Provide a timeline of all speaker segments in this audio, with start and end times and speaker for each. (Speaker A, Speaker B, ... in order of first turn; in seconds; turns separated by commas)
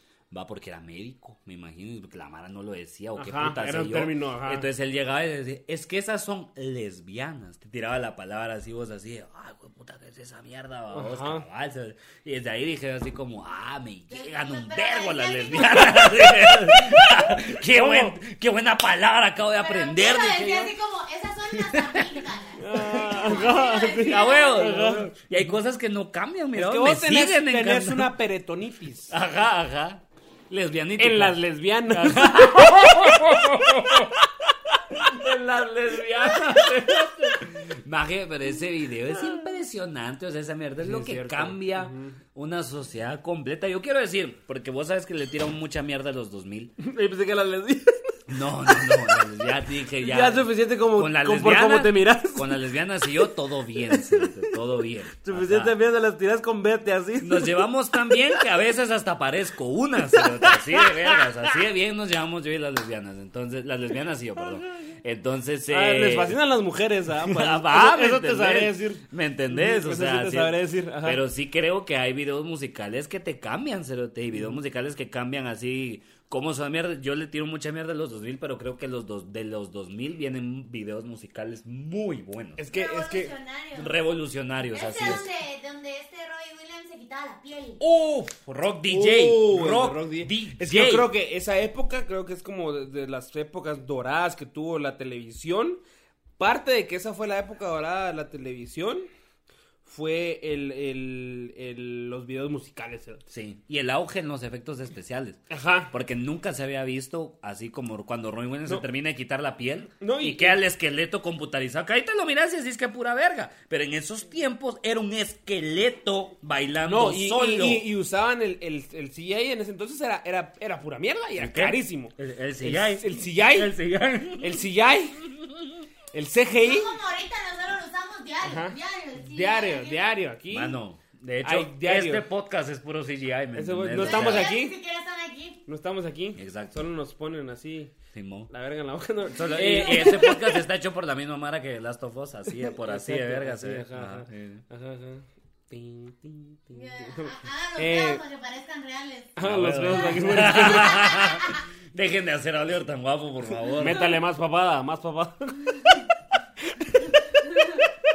Speaker A: 0.3-20.8, Speaker B: 3.2-4.7, Speaker B: 10.9-11.5, Speaker C: 14.1-16.4, Speaker B: 17.4-18.2, Speaker C: 19.6-24.7, Speaker A: 21.5-22.2, Speaker B: 22.6-25.1, Speaker A: 23.1-28.1, Speaker B: 26.5-29.1, Speaker A: 29.1-31.4, Speaker B: 31.0-34.7, Speaker A: 31.9-34.2, Speaker A: 35.0-46.8, Speaker B: 40.8-42.2, Speaker B: 46.8-49.2, Speaker A: 48.3-55.8, Speaker B: 50.0-52.5, Speaker B: 53.8-54.5, Speaker B: 55.2-58.4, Speaker A: 57.2-66.4, Speaker B: 60.1-61.6, Speaker B: 65.7-71.2, Speaker A: 67.2-82.6, Speaker B: 82.6-83.3, Speaker C: 82.7-84.0, Speaker A: 83.7-85.3, Speaker C: 84.7-87.8, Speaker A: 87.8-91.1, Speaker B: 88.9-95.8, Speaker B: 96.4-99.1, Speaker B: 99.8-103.2, Speaker A: 103.3-117.9, Speaker B: 105.5-105.9, Speaker B: 110.0-110.6, Speaker B: 116.9-123.8, Speaker A: 121.4-124.6, Speaker B: 124.4-125.3, Speaker B: 126.1-127.0, Speaker C: 126.5-130.2, Speaker B: 128.4-130.8, Speaker A: 130.5-134.5, Speaker B: 131.4-132.2, Speaker B: 133.6-134.8, Speaker C: 134.0-135.6, Speaker B: 135.7-137.9, Speaker A: 136.4-136.8, Speaker A: 138.1-138.5, Speaker B: 138.5-140.6, Speaker A: 139.3-144.6, Speaker B: 142.6-148.2, Speaker C: 146.7-149.4, Speaker B: 149.3-151.1, Speaker A: 149.4-154.1, Speaker C: 149.9-151.6, Speaker B: 153.8-156.1, Speaker B: 156.7-157.8